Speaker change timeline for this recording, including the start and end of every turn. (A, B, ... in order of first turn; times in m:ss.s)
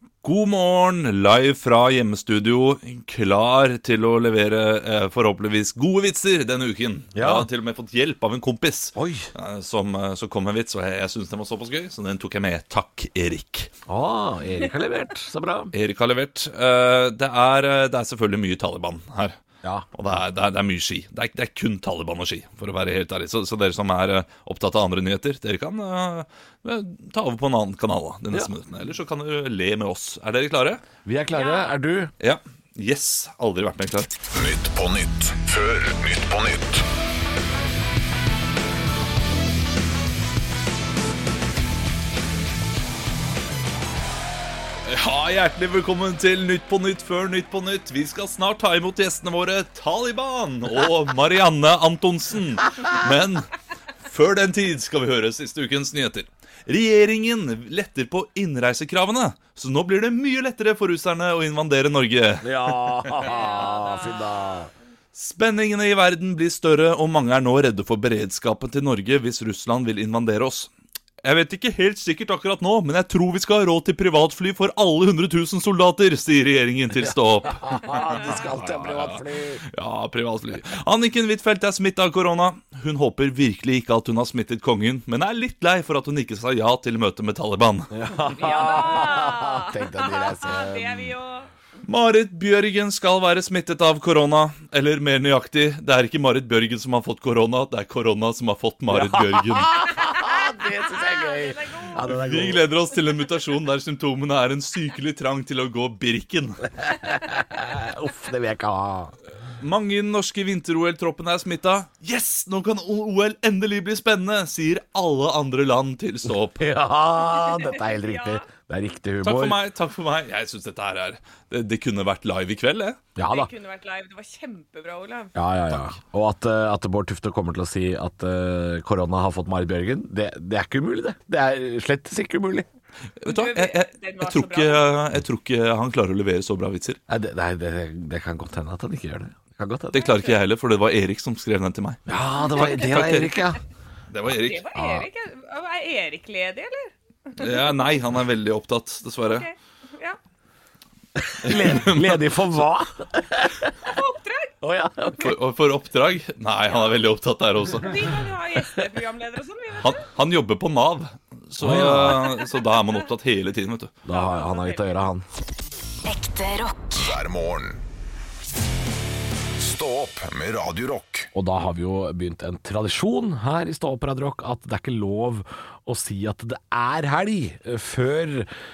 0:00.2-0:13.7 A
0:07.1-0:07.5 B
0:09.0-0:09.3 B
0:13.9-0:15.7 B
0:15.7-0:19.4 A
0:19.9-0:30.8 A
0:31.0-0:32.1 B
0:31.4-0:31.7 C
0:32.2-0:34.2 A
0:34.3-0:36.9 D
0:44.9-0:53.5 A
0:54.1-1:03.2 A
1:02.4-1:04.7 B
1:03.3-1:04.0 C
1:05.1-1:10.7 A
1:11.2-1:19.2 A
1:17.4-1:19.6 B
1:19.7-1:27.9 A
1:27.9-1:31.1 B
1:28.3-1:31.5 C
1:31.9-1:39.8 A
1:38.9-1:42.6 B
1:40.0-1:42.1 C
1:42.0-1:46.6 A
1:46.8-1:49.2 B
1:49.6-1:56.7 A
1:56.6-1:59.6 B
1:57.3-1:58.5 C
1:59.2-2:03.0 A
2:03.2-2:03.5 B
2:03.2-2:05.3 C
2:05.4-2:12.7 B
2:13.2-2:17.0 A
2:13.2-2:14.9 C
2:17.1-2:20.0 B
2:19.9-2:22.0 A
2:20.0-2:20.4 C
2:22.1-2:23.6 B
2:22.4-2:22.8 C
2:22.6-2:23.5 A
2:24.1-2:24.7 A
2:24.3-2:27.6 C
2:24.8-2:25.1 B
2:27.4-2:29.5 A
2:29.3-2:30.2 C
2:31.2-2:33.7 B
2:31.5-2:32.2 A
2:33.8-2:34.5 C
2:34.6-2:35.4 B
2:35.2-2:37.9 A
2:37.8-2:40.1 C
2:39.8-2:44.0 A
2:41.6-2:42.2 B
2:44.0-2:45.2 B
2:44.1-2:44.8 C
2:46.0-2:47.8 D
2:49.6-2:51.3 D
2:51.3-2:58.5 B